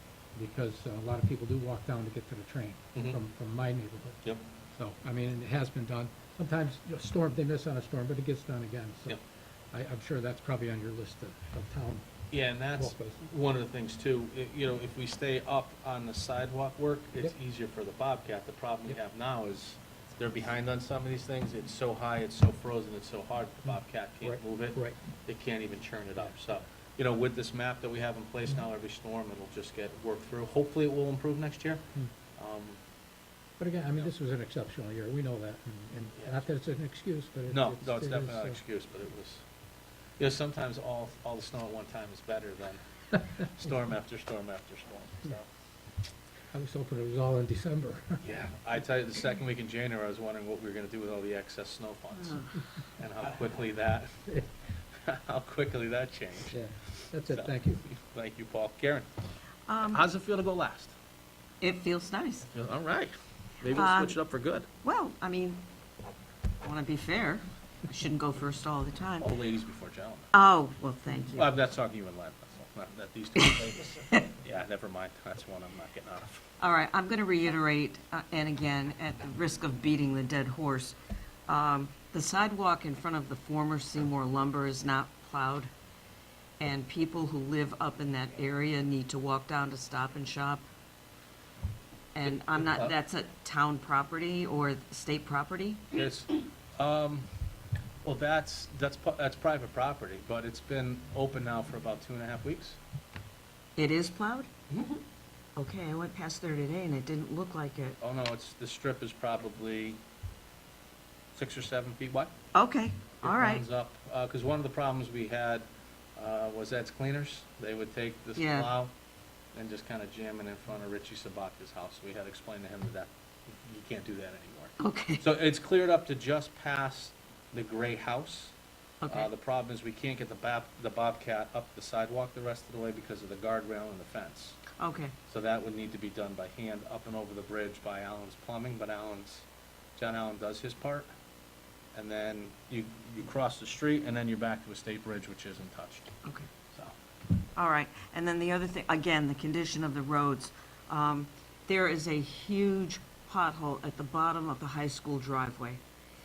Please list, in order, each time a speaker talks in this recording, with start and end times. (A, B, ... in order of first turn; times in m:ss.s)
0:00.3-0:04.2 A
0:02.9-0:03.2 B
0:04.7-0:09.2 A
0:09.7-0:12.0 A
0:12.3-0:32.8 B
0:12.7-0:13.2 A
0:24.2-0:25.0 A
0:33.6-0:38.6 A
0:36.1-0:36.4 B
0:37.5-0:39.4 B
0:40.2-0:45.5 B
0:46.5-0:48.2 A
0:48.2-0:54.4 B
0:52.2-0:52.5 C
0:55.0-0:56.6 B
0:56.5-0:57.8 A
0:57.2-0:59.1 B
0:59.7-1:00.0 C
0:59.9-1:00.9 B
1:01.6-1:02.5 C
1:02.5-1:04.7 B
1:03.7-1:04.2 C
1:04.8-1:05.6 C
1:06.6-1:09.3 C
1:09.2-1:10.3 B
1:10.3-1:11.5 C
1:11.3-1:16.4 B
1:16.6-1:21.0 C
1:21.5-1:25.7 C
1:26.6-1:30.6 C
1:32.1-1:35.9 C
1:32.2-1:32.9 B
1:35.9-1:37.3 B
1:38.0-1:42.8 B
1:43.8-1:44.5 C
1:45.6-1:48.0 C
1:48.0-1:50.0 B
1:51.3-1:52.3 B
1:52.5-1:53.6 C
1:53.2-1:58.9 B
1:58.4-1:58.7 C
1:59.5-2:08.5 B
2:04.8-2:05.2 C
2:09.0-2:09.3 C
2:09.1-2:14.6 B
2:14.8-2:15.2 C
2:15.3-2:21.1 B
2:21.9-2:26.2 B
2:27.6-2:35.8 C